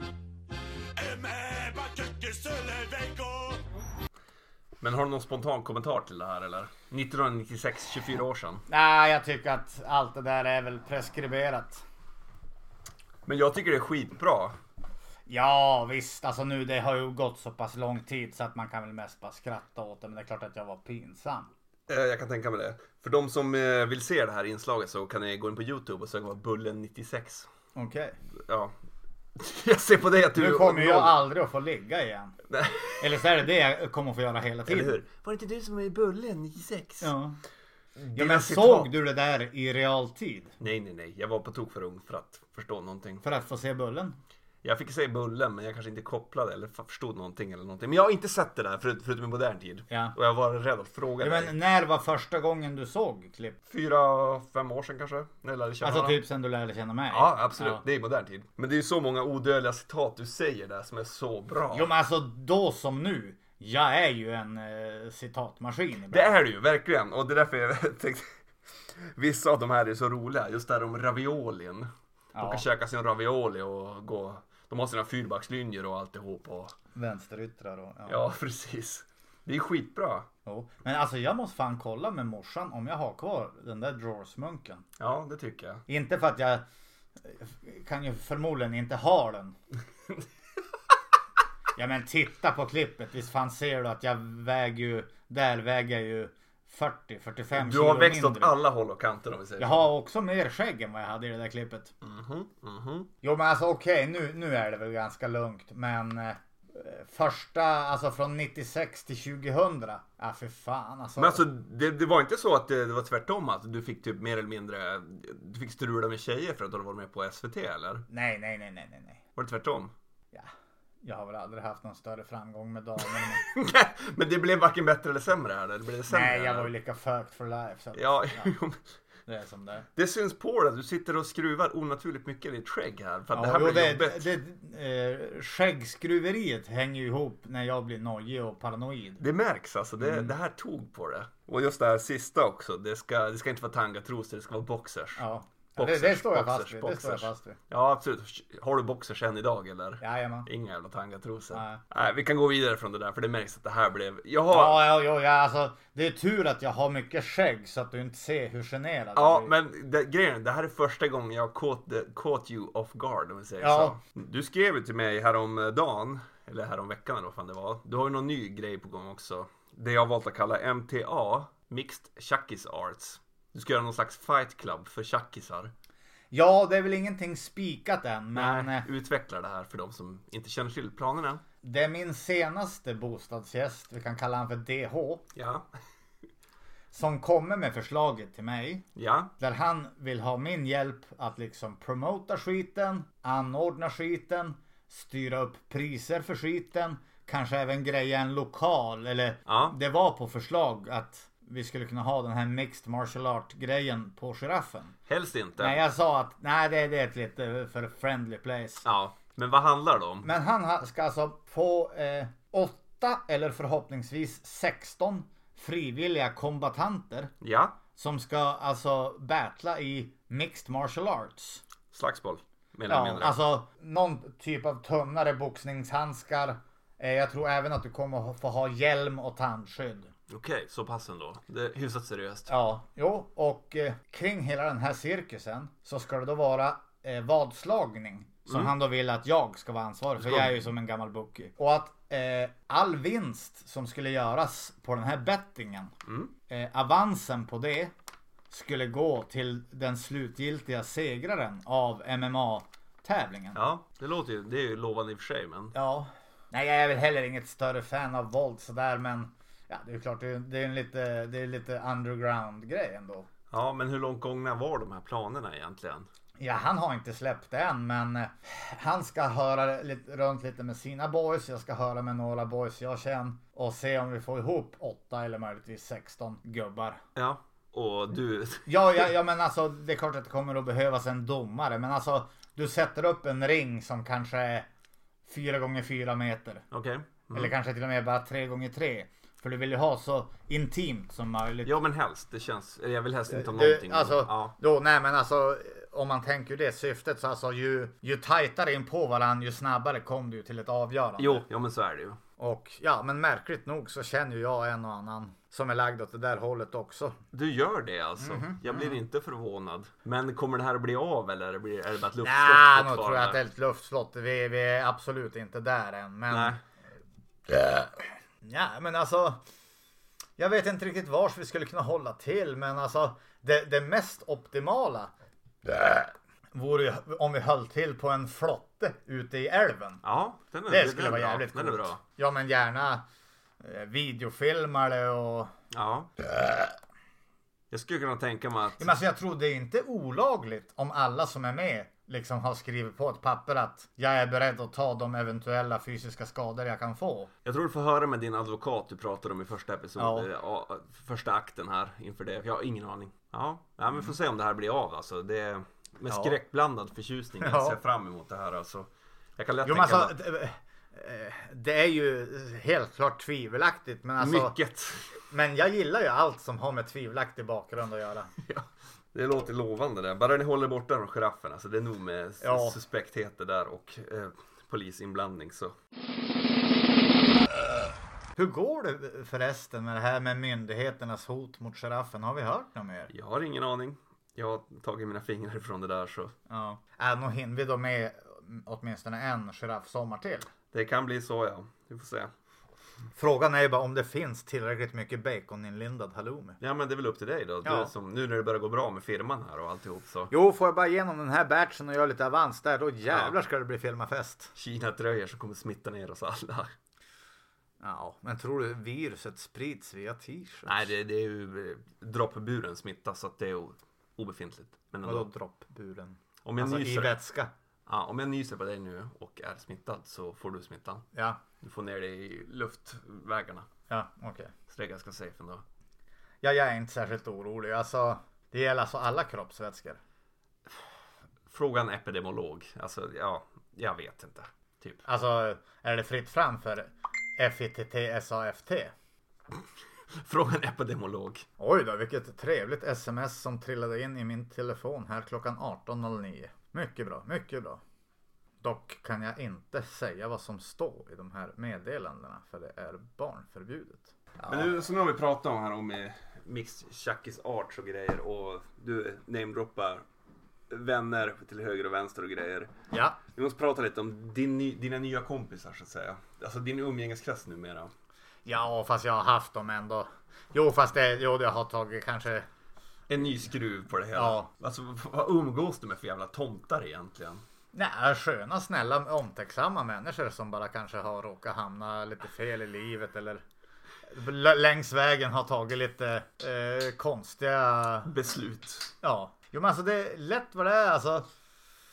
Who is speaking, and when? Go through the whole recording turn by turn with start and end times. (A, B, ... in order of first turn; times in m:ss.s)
0:01.0-0:03.6 A
0:04.8-0:08.6 B
0:08.7-0:11.8 C
0:13.3-0:14.6 B
0:15.3-0:21.5 C
0:21.9-0:27.5 B
0:27.8-0:28.2 C
0:28.4-0:28.7 B
0:29.4-0:31.2 B
0:30.3-0:32.4 C
0:32.5-0:33.2 B
0:33.0-0:35.0 C
0:34.7-0:37.1 B
0:37.0-0:37.4 C
0:38.0-0:38.9 B
0:38.2-0:40.6 C
0:40.6-0:43.2 B
0:43.2-0:44.2 C
0:44.6-0:51.5 B
0:49.9-0:50.2 C
0:51.2-0:53.6 C
0:53.7-0:56.2 B
0:55.8-0:57.8 C
0:57.1-1:01.9 B
1:01.7-1:06.4 C
1:06.1-1:16.8 B
1:12.4-1:12.6 C
1:17.0-1:18.2 C
1:18.1-1:20.3 B
1:20.5-1:24.8 C
1:25.0-1:25.8 B
1:25.9-1:26.6 C
1:27.2-1:29.6 C
1:31.8-1:38.6 C
1:37.5-1:39.9 B
1:39.6-1:41.9 C
1:42.0-1:43.1 B
1:43.2-1:51.5 C
1:51.2-1:58.1 B
1:58.1-1:59.2 C
1:59.4-1:59.9 B
2:01.0-2:03.4 C
2:03.1-2:06.7 B
2:06.1-2:08.5 C
2:07.9-2:08.9 B
2:09.3-2:09.9 C
2:10.0-2:14.3 B
2:13.3-2:19.2 C
2:19.2-2:25.2 B
2:20.0-2:20.3 C
2:25.2-2:27.6 C
2:25.8-2:35.0 B
2:30.0-2:30.5 C
2:31.5-2:31.8 C
2:34.5-2:39.5 C
2:39.2-2:55.7 B
2:43.6-2:44.0 C
2:56.3-2:58.9 C
2:58.4-3:01.4 B
3:01.6-3:05.2 C
3:05.4-3:05.7 B
3:06.9-3:08.8 C
3:09.0-3:09.3 B
3:09.4-3:25.0 C
3:19.5-3:19.8 B
3:25.1-3:25.8 B
3:25.6-3:28.8 C
3:28.8-3:30.3 B
3:30.2-3:37.3 C
3:37.4-3:37.8 B
3:38.0-3:41.6 C
3:41.9-3:43.4 B
3:42.9-3:50.1 C
3:50.3-3:52.5 B
3:52.5-4:06.0 C
3:58.5-3:58.7 B
4:00.2-4:00.6 B
4:06.1-4:06.3 B
4:06.5-4:07.9 C
4:08.5-4:13.6 C
4:13.5-4:15.8 B
4:15.7-4:23.3 C
4:23.5-4:26.1 B
4:26.4-4:37.0 C
4:37.2-4:39.1 B
4:38.7-4:44.7 C
4:45.3-4:46.6 C
4:46.7-4:47.5 B
4:47.3-4:51.8 C
4:51.6-4:54.6 B
4:53.3-5:01.5 C
5:01.2-5:02.2 B
5:02.4-5:07.2 C
5:07.3-5:13.4 B
5:08.2-5:09.0 C
5:12.2-5:16.6 C
5:16.3-5:16.6 B
5:18.4-5:19.4 C
5:20.4-5:25.1 C
5:25.7-5:30.0 C
5:30.0-5:32.0 B
5:30.7-5:33.0 C
5:33.6-5:35.5 C
5:35.7-5:36.1 B
5:37.7-5:39.0 B
5:38.8-5:47.3 C
5:47.4-6:00.2 B
5:50.0-5:50.3 C
5:56.1-5:56.4 C
5:57.4-5:57.8 C
5:59.6-6:04.6 C
6:04.2-6:05.1 B
6:05.3-6:08.3 C
6:08.4-6:15.8 B
6:12.4-6:12.8 C
6:18.4-6:23.1 C
6:23.1-6:26.4 B
6:26.5-6:30.5 C
6:30.7-6:32.3 B
6:33.2-6:36.6 C
6:36.6-6:40.3 B
6:37.6-6:37.9 C
6:40.3-6:44.5 C
6:43.1-6:43.4 B
6:44.6-6:46.7 B
6:47.8-6:50.8 C
6:50.7-6:55.3 B
6:55.0-6:57.5 C
6:56.4-6:57.2 B
6:57.9-7:01.0 B
7:01.1-7:01.4 C
7:01.6-7:03.7 B
7:03.9-7:04.5 C
7:04.7-7:05.6 B
7:06.4-7:10.0 C
7:11.5-7:15.0 B
7:15.0-7:18.9 C
7:20.1-7:21.5 B
7:21.6-7:27.8 C
7:28.6-7:34.7 C
7:34.5-7:40.0 B
7:40.7-7:42.7 B
7:42.9-7:43.2 C
7:43.3-7:47.9 B
7:48.5-7:52.5 C
7:53.1-7:57.4 B
7:54.1-7:54.5 C
7:57.7-8:03.4 C
8:04.1-8:08.1 C
8:08.0-8:08.9 B
8:09.0-8:11.3 C